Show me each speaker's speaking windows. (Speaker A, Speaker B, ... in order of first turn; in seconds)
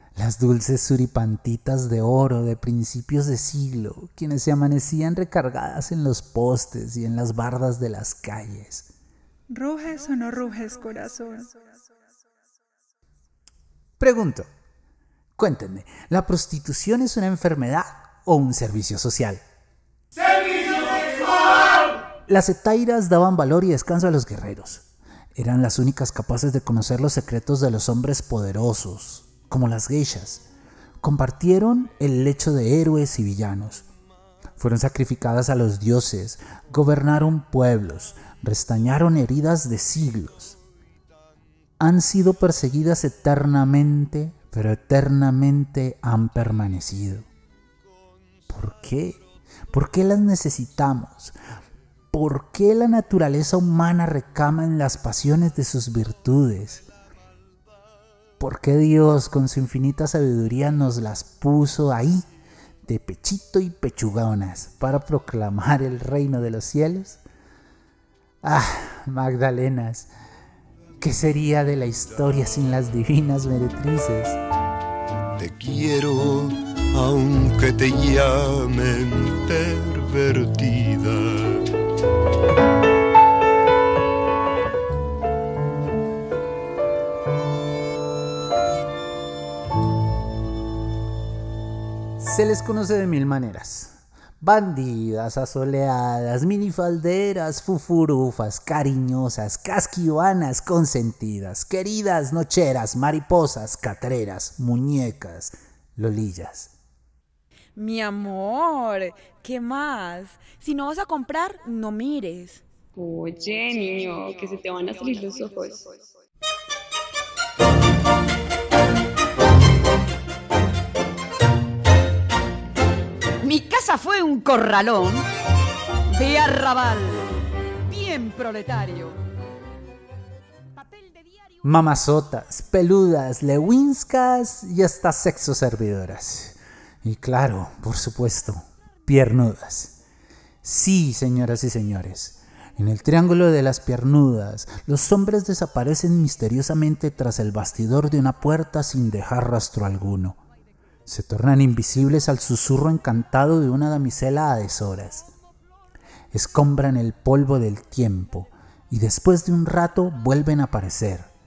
Speaker A: 0.1-8.9, 14.0-14.5, 15.4-19.4, 22.3-24.8, 25.4-30.4, 31.0-33.8, 34.6-40.6, 41.8-47.3, 48.5-51.4, 52.1-56.9, 58.4-62.2, 62.9-67.2, 68.4-70.1, 71.0-74.4, 92.2-106.7, 131.6-140.0, 140.6-150.4, 151.1-155.3, 156.3-161.3
Speaker B: 9.5-11.6
Speaker C: 75.4-81.6
Speaker D: 107.8-108.4, 109.4-112.5
Speaker E: 112.9-116.0
Speaker F: 123.4-125.2, 126.1-127.2, 127.9-129.1